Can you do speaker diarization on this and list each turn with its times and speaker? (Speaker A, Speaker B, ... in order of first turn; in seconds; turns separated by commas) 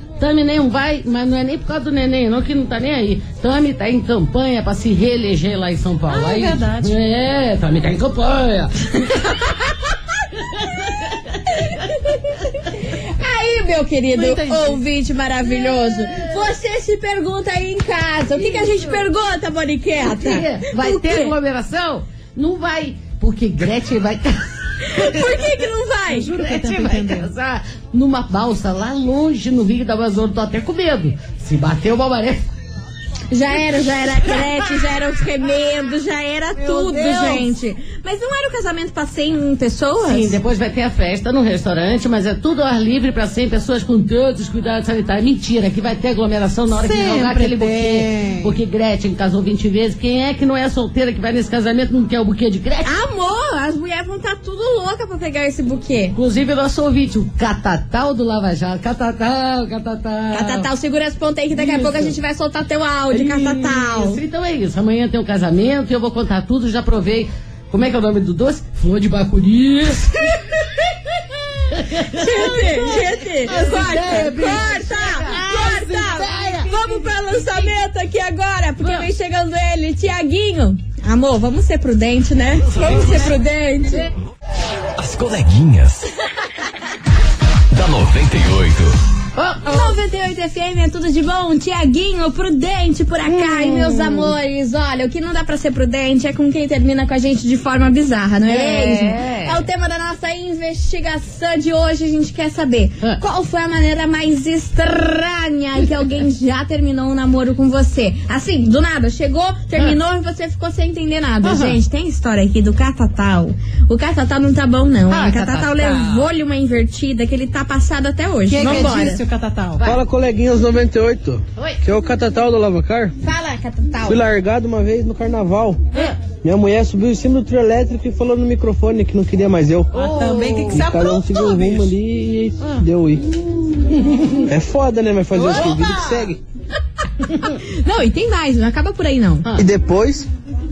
Speaker A: 0.2-9.4, Speaker B: 6.1-7.0, Speaker A: 10.4-11.4, Speaker C: 11.5-21.4, Speaker B: 14.1-14.8, Speaker A: 20.0-25.6, Speaker C: 24.8-26.3, Speaker B: 26.1-27.3, Speaker A: 26.4-32.5, Speaker C: 33.3-40.4, Speaker A: 34.3-34.6, Speaker B: 36.6-37.5, Speaker A: 40.0-52.9, Speaker B: 46.7-48.6, Speaker C: 52.8-56.2, Speaker A: 56.1-60.7, Speaker C: 60.3-64.2, Speaker A: 61.5-62.2, Speaker A: 63.1-70.8, Speaker A: 71.7-75.4, Speaker C: 72.1-84.0, Speaker B: 72.6-77.7, Speaker A: 78.8-79.1, Speaker D: 82.6-83.4, Speaker A: 82.9-83.2, Speaker D: 85.0-86.0, Speaker D: 87.7-88.9, Speaker A: 89.3-90.0, Speaker C: 89.7-119.2, Speaker A: 93.3-94.3, Speaker A: 98.5-99.6, Speaker A: 111.4-111.8, Speaker A: 115.1-116.3, Speaker B: 118.5-119.8, Speaker E: 119.8-123.1, Speaker A: 121.6-121.8, Speaker C: 123.2-124.2, Speaker E: 124.0-129.9, Speaker A: 125.9-126.2, Speaker A: 129.9-130.9, Speaker B: 129.9-131.9, Speaker E: 130.7-133.2, Speaker A: 133.7-134.5, Speaker E: 134.4-136.4, Speaker B: 135.4-136.3, Speaker A: 137.3-137.5, Speaker C: 137.4-139.4, Speaker E: 139.5-140.3